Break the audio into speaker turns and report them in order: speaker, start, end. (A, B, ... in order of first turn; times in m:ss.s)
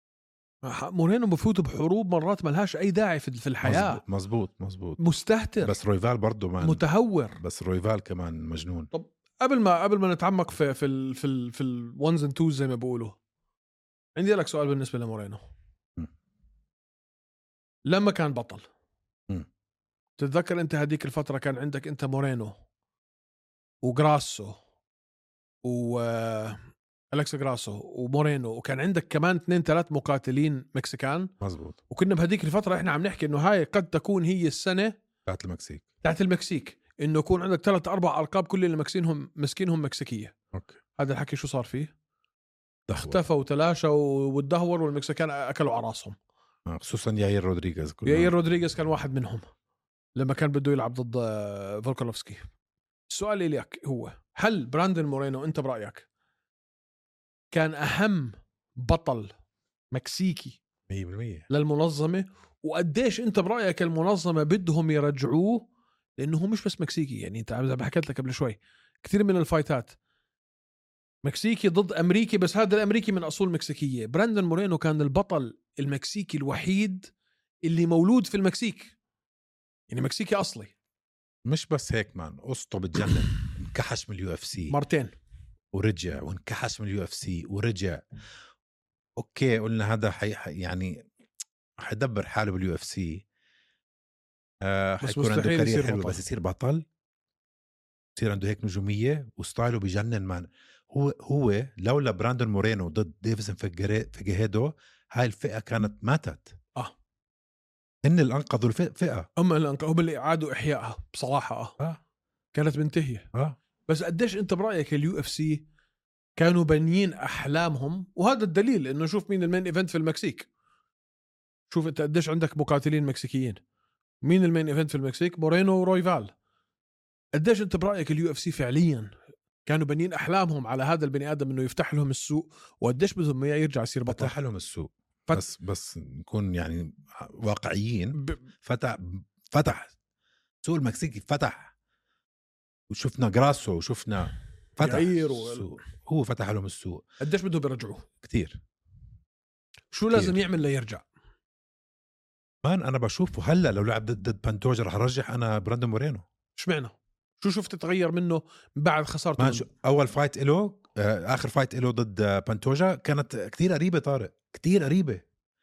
0:00.6-0:04.0 A
0:03.6-0:05.0 B
0:05.0-0:05.7 A
0:05.6-0:06.8 B
0:06.6-0:07.4 A
0:07.4-0:08.9 B
0:08.9-0:13.2 A
0:14.2-0:15.4 A
0:17.9-0:18.6 A
0:20.2-0:22.5 A
0:23.8-0:24.6 A
0:25.6-0:26.6 A
0:27.1-0:31.3 A
0:31.4-0:31.8 B
0:31.9-0:35.0 A
0:35.2-0:35.8 B
0:36.0-0:40.3 A
0:41.0-0:41.9 A
0:42.9-0:43.2 B
0:42.9-0:46.2 A
0:46.7-0:48.3 B
0:48.0-0:49.4 A
0:50.2-0:52.4 A
0:53.1-0:56.0 A
0:57.5-0:59.3 A
0:59.9-1:00.6 A
1:00.9-1:01.5 B
1:01.5-1:10.0 A
1:11.2-1:17.1 A
1:17.6-1:18.9 A
1:19.9-1:20.7 A
1:21.4-1:24.8 B
1:24.7-1:25.1 A
1:25.7-1:28.0 B
1:29.2-1:31.0 B
1:31.8-1:33.2 B
1:34.6-1:36.8 B
1:35.0-1:36.2 A
1:38.2-1:46.5 B
1:48.0-1:49.3 B
1:49.4-1:51.8 A
1:52.5-1:53.3 A
1:53.9-1:55.6 A
1:56.4-2:00.5 A
2:01.7-2:03.6 A
2:04.2-2:06.3 A
2:07.3-2:09.1 A
2:09.6-2:14.3 A
2:14.1-2:19.9 B
2:20.6-2:21.7 B
2:22.9-2:27.0 B
2:24.8-2:25.6 A
2:27.2-2:28.0 A
2:28.2-2:28.6 B
2:29.9-2:31.0 A
2:30.1-2:30.4 B
2:32.6-2:36.2 B
2:36.6-2:39.7 A
2:39.4-2:45.2 B